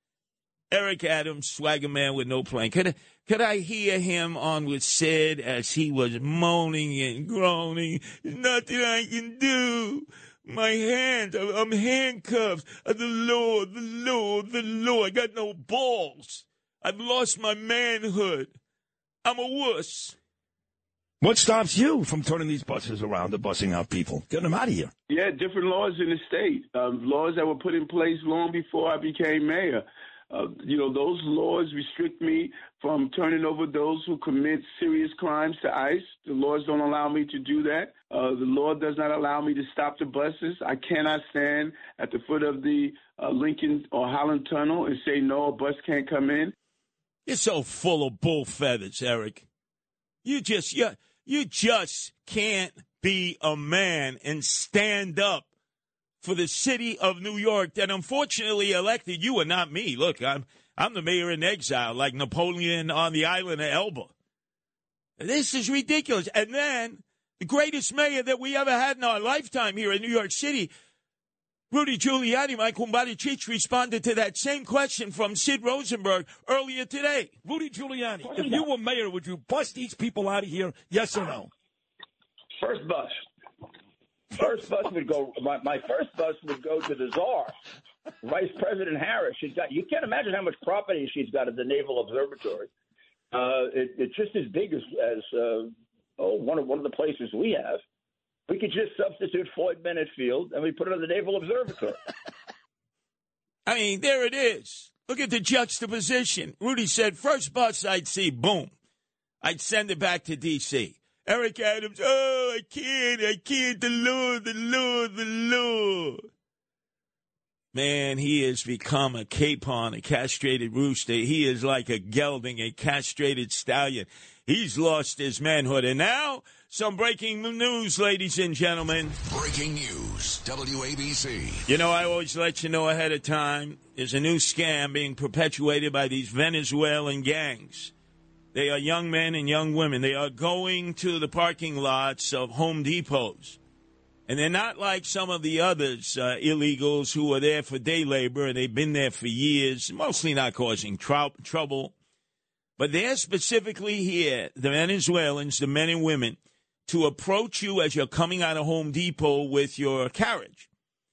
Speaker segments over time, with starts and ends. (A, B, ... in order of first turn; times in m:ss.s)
0:00.7-0:18.5 A
0:19.2-0:20.2 A
0:21.2-0:24.9 B
0:25.1-0:46.5 C
0:47.3-0:49.5 A
0:50.2-0:55.5 A
0:56.2-1:04.1 A
1:05.2-1:10.7 A
1:11.7-1:17.3 A
1:17.4-1:21.5 B
1:18.2-1:18.7 D
1:22.6-1:23.2 D
1:24.3-1:27.5 D
1:28.2-1:32.7 D
1:33.3-1:37.8 D
1:38.5-1:42.0 D
1:43.7-1:48.7 A
1:49.4-1:56.3 A
1:57.7-2:09.2 A
2:09.3-2:11.7 E
2:11.7-2:17.9 A
2:18.5-2:23.6 A
2:24.3-2:31.9 A
2:32.8-2:40.7 A